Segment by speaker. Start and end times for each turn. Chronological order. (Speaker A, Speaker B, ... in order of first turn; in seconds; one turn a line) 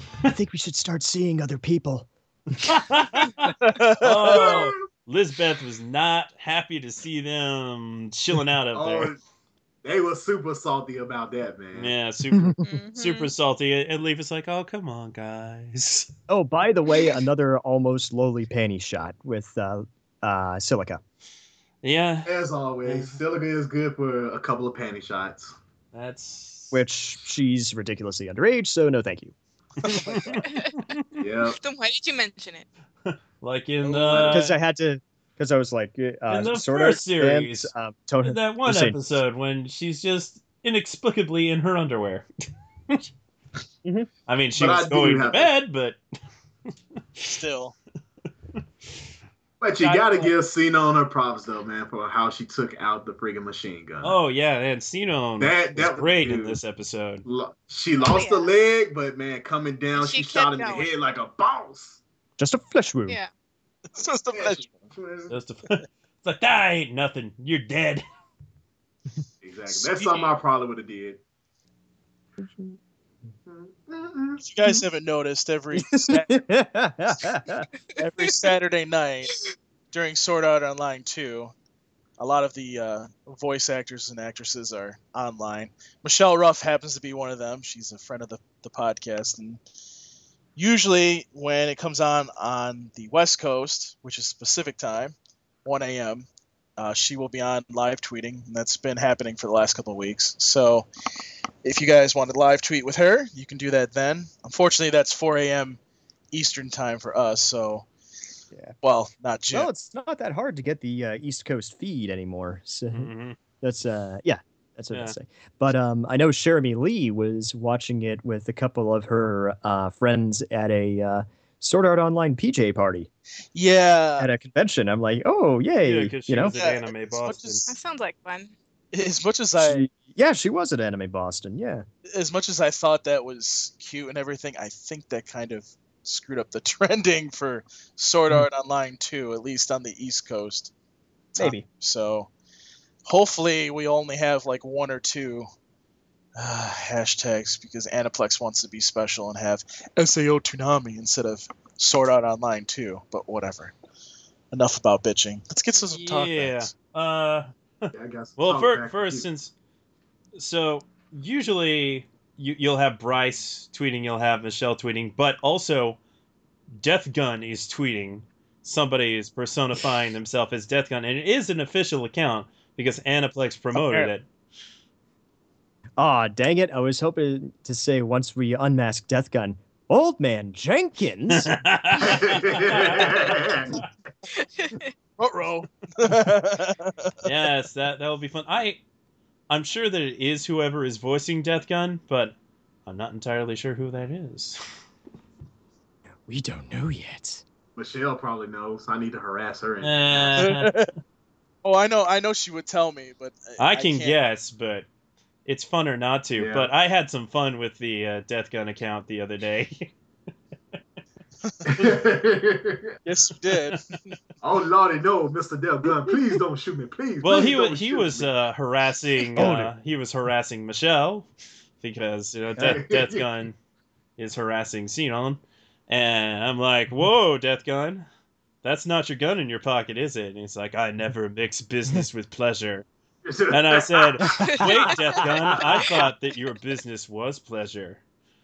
Speaker A: 0.2-2.7
Speaker B: 2.6-9.1
Speaker C: 3.6-4.5
Speaker D: 4.3-4.8
Speaker D: 8.7-9.2
Speaker D: 9.8-11.9
Speaker B: 11.7-16.1
Speaker E: 12.6-13.3
Speaker A: 16.3-21.0
Speaker B: 21.8-22.3
Speaker D: 22.2-25.5
Speaker B: 22.8-23.2
Speaker B: 25.9-26.8
Speaker A: 26.7-29.3
Speaker B: 29.8-31.2
Speaker C: 29.8-30.4
Speaker E: 30.3-30.8
Speaker D: 31.2-31.6
Speaker E: 31.6-32.7
Speaker B: 33.0-34.6
Speaker D: 34.0-34.4
Speaker A: 34.2-39.0
Speaker B: 36.3-37.7
Speaker B: 38.2-42.2
Speaker A: 43.8-44.1
Speaker B: 44.3-46.0
Speaker D: 44.5-45.5
Speaker C: 47.2-47.7
Speaker D: 49.6-54.2
Speaker B: 49.8-50.3
Speaker B: 54.0-57.2
Speaker D: 55.4-56.6
Speaker D: 57.2-62.0
Speaker E: 58.0-58.5
Speaker E: 59.9-60.9
Speaker A: 62.4-63.2
Speaker C: 63.9-64.9
Speaker D: 64.3-65.3
Speaker B: 65.3-68.0
Speaker D: 69.4-71.2
Speaker C: 69.8-70.3
Speaker A: 72.4-72.8
Speaker D: 73.5-74.4
Speaker C: 74.4-76.4
Speaker A: 75.7-77.7
Speaker E: 78.0-78.5
Speaker C: 78.0-81.5
Speaker C: 82.2-89.6
Speaker C: 90.5-95.1
Speaker C: 95.6-100.9
Speaker C: 101.6-105.8
Speaker C: 106.3-107.8
Speaker C: 108.8-109.7
Speaker A: 109.5-113.1
Speaker B: 112.9-113.4
Speaker A: 113.6-123.1
Speaker C: 123.5-124.3
Speaker A: 124.2-126.5
Speaker B: 125.8-127.7
Speaker C: 126.5-127.7
Speaker E: 127.7-128.5
Speaker C: 128.9-129.9
Speaker A: 129.6-131.8
Speaker C: 132.1-140.7
Speaker C: 141.3-142.3
Speaker A: 141.4-141.6
Speaker C: 143.0-145.4
Speaker C: 146.4-153.7
Speaker C: 154.5-156.7
Speaker B: 155.9-159.5
Speaker D: 157.9-159.3
Speaker B: 160.3-166.0
Speaker B: 166.8-174.2
Speaker C: 173.7-174.1
Speaker A: 176.0-181.5
Speaker B: 181.3-183.9
Speaker D: 182.0-183.7
Speaker E: 184.3-184.9
Speaker C: 185.2-187.1
Speaker B: 187.2-188.8
Speaker B: 189.5-194.6
Speaker A: 196.3-197.4
Speaker D: 197.8-200.5
Speaker B: 199.8-200.7
Speaker C: 200.4-200.9
Speaker C: 201.6-204.2
Speaker B: 203.6-204.9
Speaker B: 205.4-209.9
Speaker D: 206.4-206.7
Speaker C: 211.4-211.7
Speaker D: 211.6-212.9
Speaker C: 213.0-214.2
Speaker D: 214.4-218.3
Speaker B: 217.2-221.3
Speaker A: 219.3-219.7
Speaker B: 221.8-223.6
Speaker D: 222.6-223.2
Speaker B: 224.2-228.1
Speaker B: 228.6-232.8
Speaker D: 233.2-234.8
Speaker B: 233.5-238.0